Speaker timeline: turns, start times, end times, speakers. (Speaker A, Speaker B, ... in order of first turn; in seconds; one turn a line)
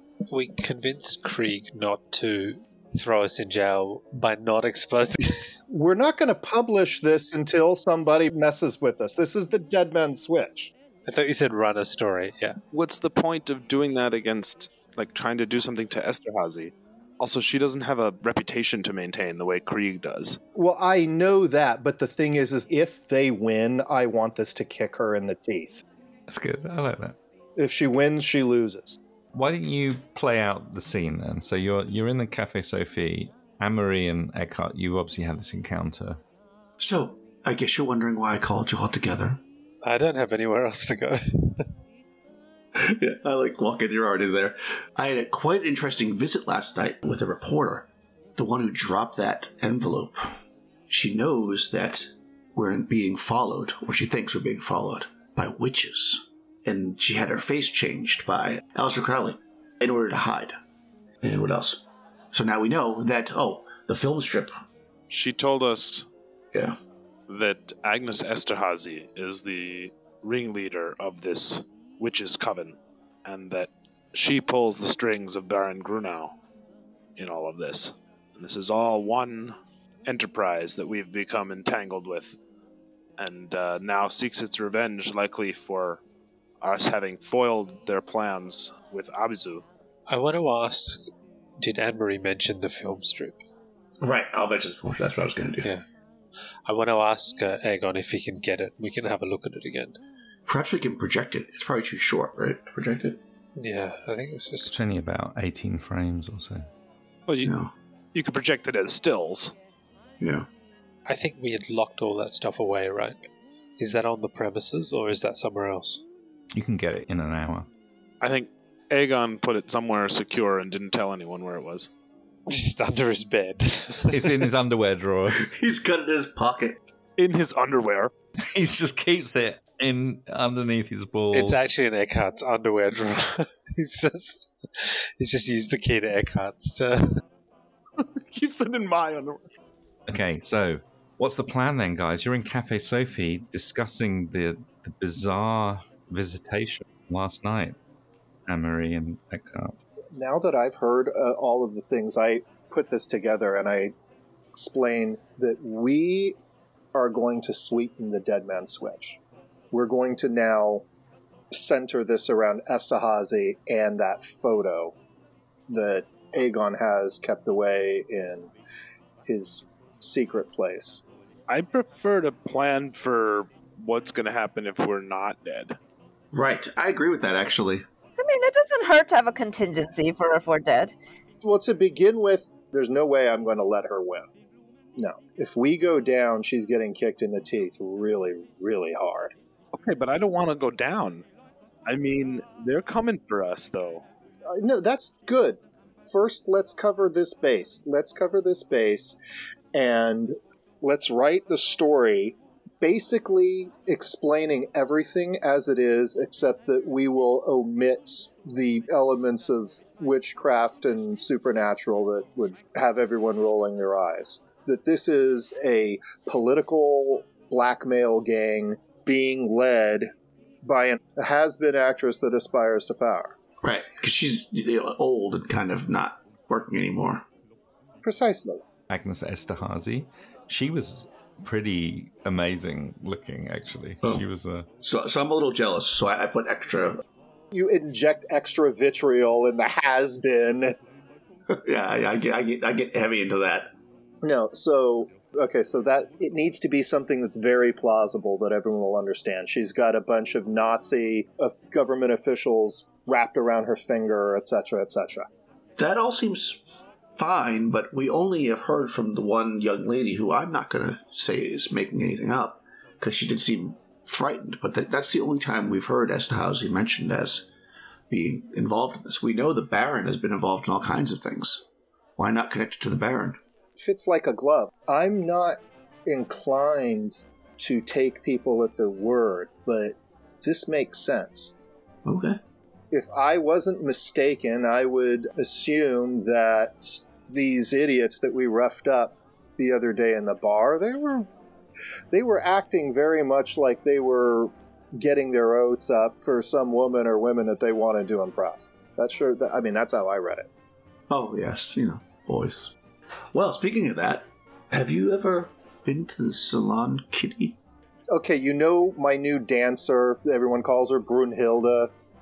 Speaker A: 0.3-5.5
Speaker B: 5.7-10.7
Speaker A: 11.1-12.6
Speaker C: 12.7-20.4
Speaker B: 20.6-25.8
Speaker D: 26.3-27.2
Speaker B: 27.6-29.0
Speaker D: 29.3-36.2
Speaker E: 36.8-39.4
Speaker A: 39.8-41.7
Speaker E: 42.7-50.4
Speaker E: 50.9-60.6
Speaker E: 61.2-64.5
Speaker C: 65.1-66.1
Speaker C: 67.3-76.4
Speaker C: 77.2-82.3
Speaker C: 83.2-86.0
Speaker C: 86.6-89.7
Speaker A: 90.1-91.1
Speaker A: 91.6-93.4
Speaker E: 94.0-95.7
Speaker A: 96.7-100.0
Speaker E: 100.5-103.2
Speaker A: 103.6-104.7
Speaker D: 104.7-106.7
Speaker C: 107.3-107.5
Speaker E: 107.4-107.7
Speaker C: 108.1-109.5
Speaker E: 110.2-110.5
Speaker A: 111.1-113.3
Speaker A: 113.8-116.0
Speaker D: 116.5-117.7
Speaker C: 118.2-121.9
Speaker A: 122.5-124.5
Speaker D: 124.1-125.5
Speaker E: 125.3-126.8
Speaker C: 127.2-128.1
Speaker D: 128.4-131.7
Speaker A: 131.3-137.2
Speaker C: 138.0-139.4
Speaker D: 140.1-147.8
Speaker D: 148.5-149.8
Speaker B: 150.1-153.9
Speaker B: 154.5-156.4
Speaker B: 156.9-159.2
Speaker B: 159.7-160.8
Speaker B: 161.5-164.9
Speaker B: 165.7-168.5
Speaker B: 169.3-171.0
Speaker C: 171.5-175.8
Speaker E: 176.3-177.8
Speaker F: 178.2-180.9
Speaker B: 181.4-184.3
Speaker B: 185.0-189.3
Speaker C: 189.7-191.2
Speaker C: 191.9-194.0
Speaker B: 194.5-199.2
Speaker B: 199.7-220.1
Speaker B: 220.6-223.3
Speaker E: 223.6-227.2
Speaker B: 228.0-228.6
Speaker D: 228.9-234.7
Speaker E: 234.8-237.0
Speaker B: 237.5-240.8
Speaker E: 241.5-243.7
Speaker B: 244.2-255.3
Speaker E: 255.8-267.5
Speaker E: 268.1-271.6
Speaker E: 272.2-273.4
Speaker B: 273.8-281.5
Speaker E: 282.1-282.4
Speaker B: 282.9-291.3
Speaker B: 292.1-300.5
Speaker E: 301.1-302.8
Speaker E: 303.3-307.6
Speaker B: 308.1-311.9